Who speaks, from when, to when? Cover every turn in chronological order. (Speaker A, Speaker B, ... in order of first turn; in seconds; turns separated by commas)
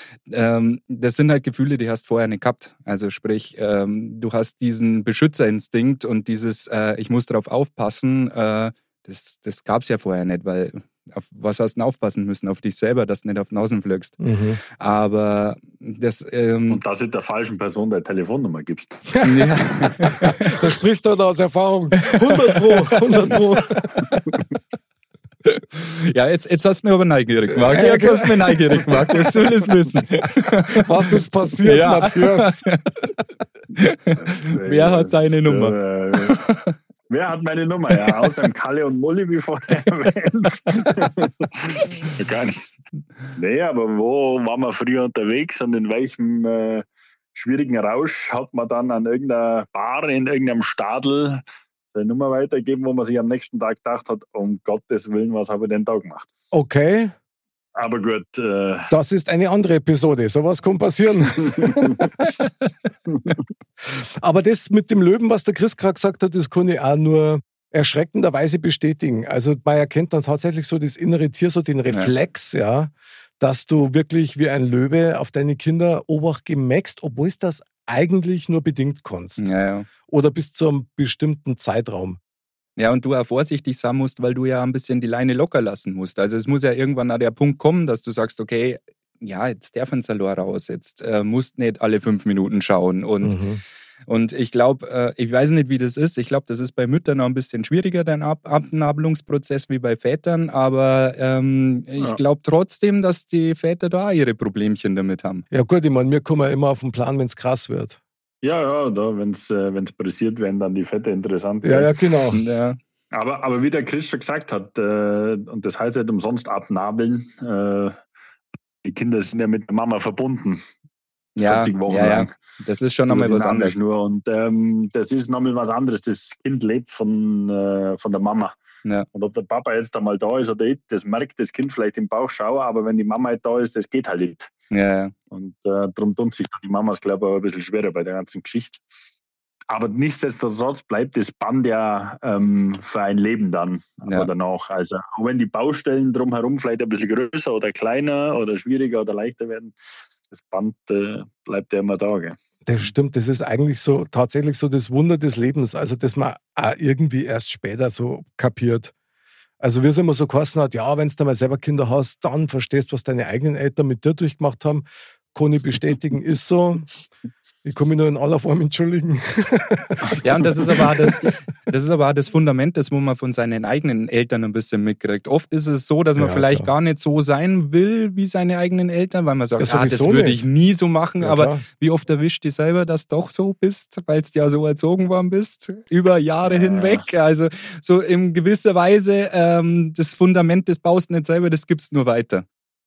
Speaker A: 0.3-14.2, Speaker B: 14.2-14.6, Speaker A: 14.8-16.8, Speaker C: 16.7-19.2, Speaker B: 19.2-19.5, Speaker A: 19.2-20.5, Speaker B: 20.1-24.0, Speaker A: 22.1-23.3, Speaker A: 25.5-30.9, Speaker B: 27.7-28.5, Speaker B: 30.8-32.6, Speaker A: 31.6-32.8, Speaker A: 33.8-36.7, Speaker C: 34.2-36.4, Speaker C: 37.1-42.7, Speaker C: 43.4-51.4, Speaker C: 51.9-56.3, Speaker B: 56.5-57.1, Speaker C: 57.8-58.9, Speaker B: 58.9-62.3, Speaker C: 61.4-62.1, Speaker C: 63.1-63.4, Speaker B: 63.8-79.5, Speaker A: 79.4-79.9, Speaker B: 80.1-82.2, Speaker A: 82.8-93.4, Speaker B: 93.2-93.6, Speaker A: 94.1-105.4, Speaker B: 105.5-108.0, Speaker C: 108.4-111.9, Speaker B: 111.6-112.4, Speaker A: 112.3-112.8, Speaker C: 113.1-118.0, Speaker C: 118.8-120.6, Speaker A: 121.4-123.8, Speaker C: 121.4-122.3, Speaker C: 123.1-128.6, Speaker C: 129.1-134.5, Speaker A: 134.7-135.1, Speaker C: 135.3-138.8, Speaker C: 139.7-149.8, Speaker C: 150.3-152.4, Speaker B: 152.7-158.9, Speaker B: 159.6-166.9, Speaker B: 167.7-170.9, Speaker A: 170.2-192.4, Speaker B: 176.2-176.7, Speaker B: 179.6-180.4, Speaker B: 181.2-181.6, Speaker C: 186.4-187.1